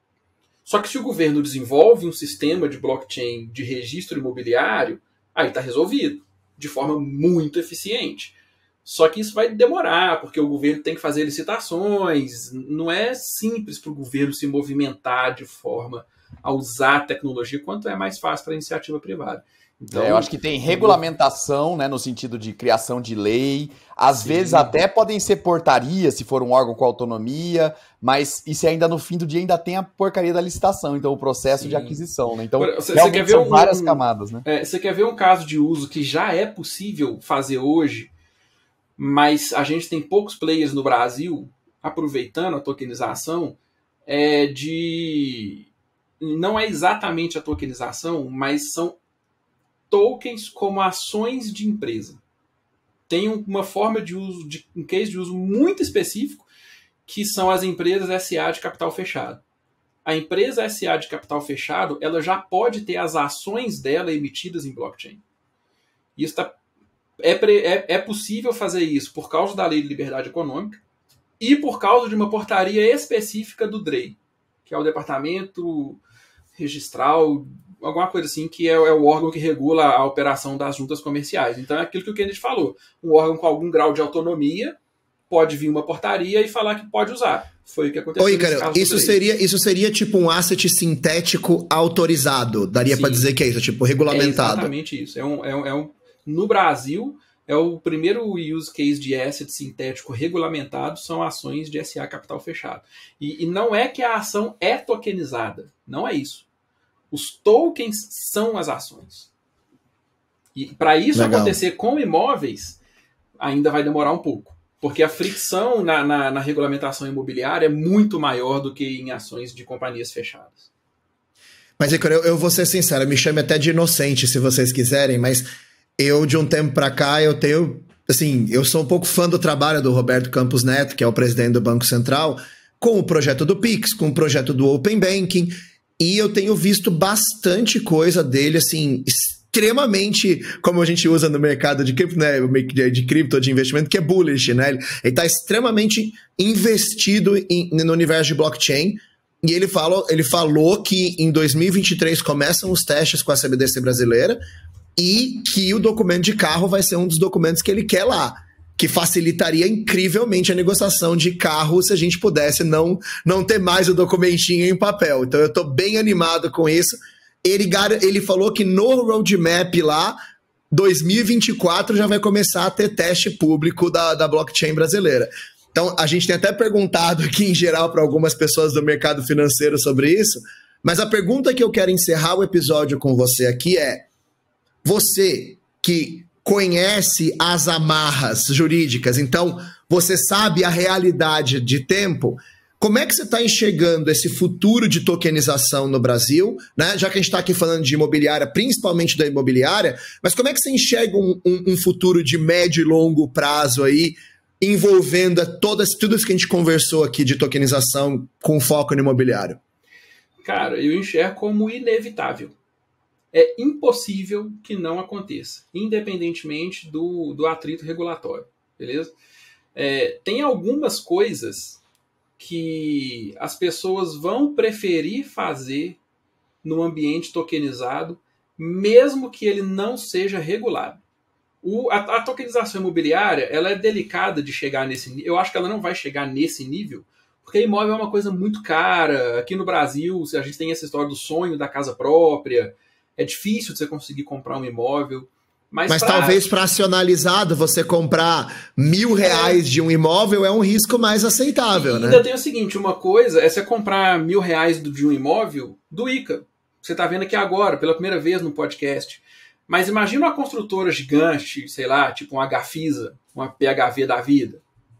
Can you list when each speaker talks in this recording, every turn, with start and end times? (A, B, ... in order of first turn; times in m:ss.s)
0:00.6-0:21.0 A
0:19.9-0:34.4 B
0:24.1-0:24.8 A
0:31.5-0:32.0 A
0:32.6-0:38.1 A
0:39.0-0:45.6 A
0:46.2-0:49.0 A
0:49.9-0:52.2 A
0:53.1-0:56.5 A
0:57.0-0:59.4 A
1:00.0-1:05.2 A
1:06.2-1:06.5 A
1:07.2-1:10.8 A
1:11.4-1:16.0 A
1:16.6-1:24.8 A
1:25.3-1:29.2 A
1:28.2-1:34.7 C
1:32.9-1:33.3 A
1:34.1-1:46.4 A
1:47.1-1:49.3 A
1:50.5-1:52.8 A
1:51.1-1:51.6 C
1:53.4-2:00.7 A
2:01.8-2:05.5 C
2:06.0-2:34.4 C
2:35.0-2:50.2 C
2:50.7-3:04.1 C
3:04.8-3:29.6 C
3:30.4-3:32.6 A
3:33.3-3:39.1 A
3:39.7-3:41.8 A
3:42.4-3:46.0 A
3:46.6-3:51.0 A
3:51.6-4:06.5 A
4:05.9-4:12.2 C
4:09.2-4:09.6 A
4:11.7-4:24.6 A